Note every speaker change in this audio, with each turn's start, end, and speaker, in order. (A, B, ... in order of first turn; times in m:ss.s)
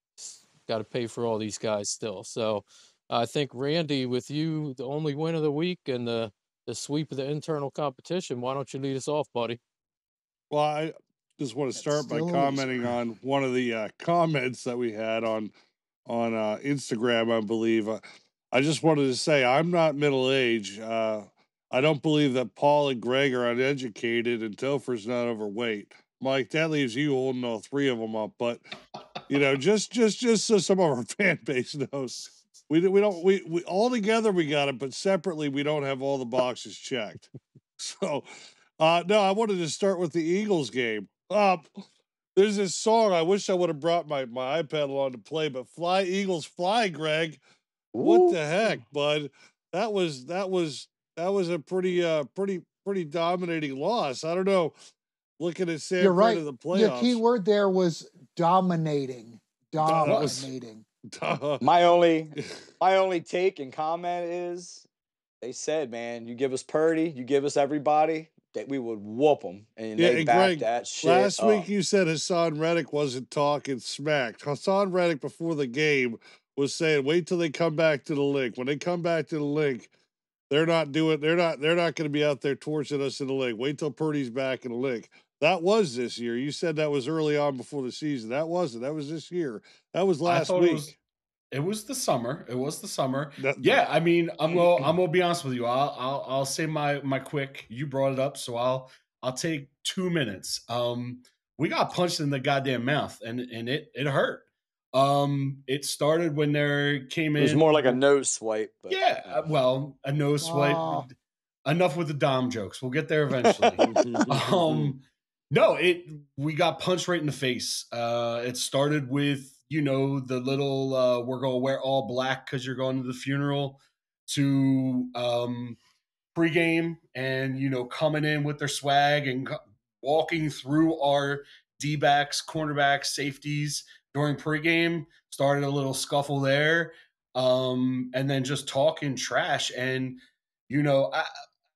0:00.2-0:09.6 A
0:10.5-0:15.5 B
0:11.8-0:12.9 C
0:16.1-0:28.6 B
0:29.3-0:38.3 B
0:38.8-0:47.4 B
0:47.9-0:48.4 D
0:48.0-0:54.7 B
0:55.4-0:57.2 B
0:56.0-1:00.8 C
0:59.8-1:00.5 B
1:01.1-1:01.6 B
1:01.6-1:04.9 D
1:05.4-1:11.7 D
1:10.0-1:19.9 B
1:20.5-1:31.0 B
1:30.2-1:30.9 E
1:31.5-1:48.0 E
1:33.4-1:33.8 B
1:34.5-1:34.9 B
1:47.4-1:49.4 D
1:48.9-1:51.1 E
1:50.4-1:51.1 C
1:51.7-2:05.8 E
1:53.4-1:54.2 D
1:53.8-1:54.9 B
2:06.3-2:21.3 E